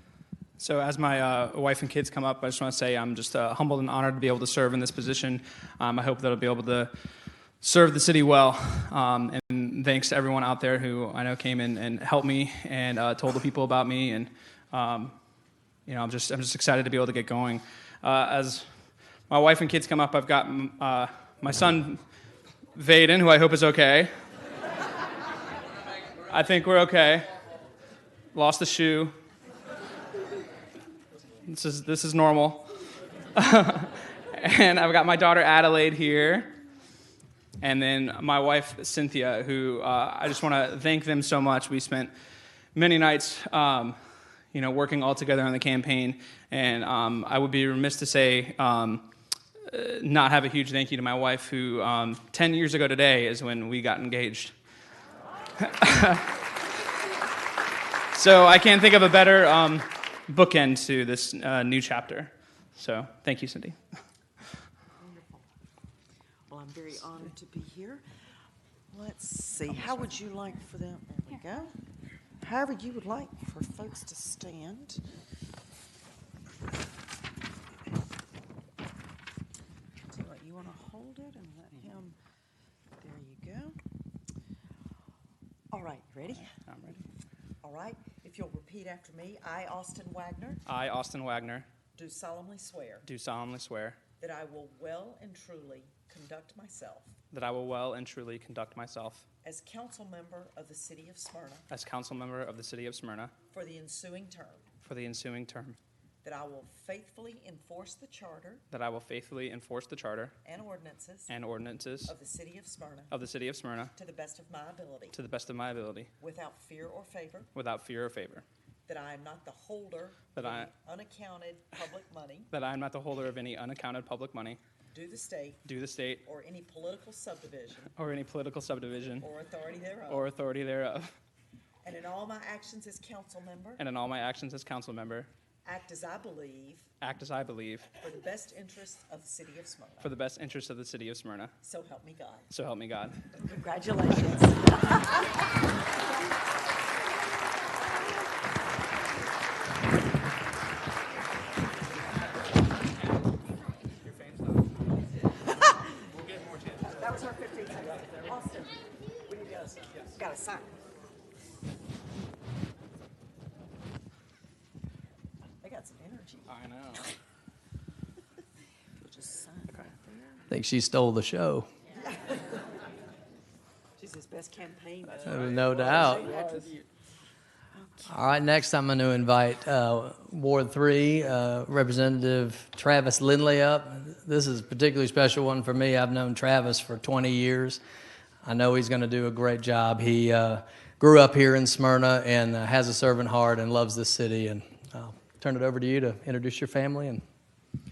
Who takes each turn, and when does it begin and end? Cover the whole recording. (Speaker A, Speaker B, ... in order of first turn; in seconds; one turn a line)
Speaker A: 0.6-6.9
Speaker A: 7.6-15.2
Speaker A: 15.9-18.7
Speaker A: 19.3-22.0
Speaker A: 22.8-24.1
Speaker A: 26.3-27.3
Speaker A: 28.3-29.1
Speaker A: 31.5-32.7
Speaker A: 33.4-36.5
Speaker A: 37.6-42.1
Speaker A: 42.8-44.0
Speaker A: 44.5-49.1
Speaker A: 49.7-54.5
Speaker A: 55.6-56.3
Speaker A: 58.1-63.8
Speaker B: 65.0-65.5
Speaker B: 66.5-68.0
Speaker B: 68.9-71.7
Speaker B: 72.4-75.0
Speaker B: 80.1-82.2
Speaker B: 83.0-83.8
Speaker B: 85.7-86.5
Speaker A: 86.3-87.1
Speaker B: 87.6-90.6
Speaker A: 90.7-91.7
Speaker B: 92.0-93.0
Speaker A: 93.0-94.0
Speaker B: 94.2-97.1
Speaker A: 97.3-99.3
Speaker B: 99.4-101.7
Speaker A: 101.7-103.3
Speaker B: 103.5-104.7
Speaker A: 104.8-105.8
Speaker B: 106.2-108.6
Speaker A: 108.7-110.3
Speaker B: 110.4-111.3
Speaker A: 111.3-112.1
Speaker B: 112.0-113.2
Speaker A: 113.1-113.9
Speaker B: 114.0-115.2
Speaker A: 115.1-116.1
Speaker B: 116.2-117.5
Speaker A: 117.5-118.5
Speaker B: 118.9-122.5
Speaker A: 120.3-120.7
Speaker A: 122.5-124.6
Speaker B: 124.9-125.6
Speaker A: 125.7-126.2
Speaker B: 126.2-127.9
Speaker A: 128.0-129.3
Speaker B: 129.2-130.3
Speaker A: 130.1-131.1
Speaker B: 131.8-133.8
Speaker A: 133.8-135.3
Speaker B: 135.7-136.9
Speaker A: 137.0-137.9
Speaker B: 138.0-140.1
Speaker A: 140.0-141.5
Speaker B: 141.6-142.5
Speaker A: 142.5-143.2
Speaker B: 143.4-145.3
Speaker B: 156.8-160.8
Speaker B: 165.6-167.1
Speaker A: 166.5-167.1
Speaker B: 169.0-170.5
Speaker C: 170.5-171.7
Speaker B: 172.0-172.7
Speaker B: 174.0-176.6
Speaker C: 175.2-176.3
Speaker A: 175.6-176.8
Speaker C: 178.1-187.8
Speaker C: 188.4-197.2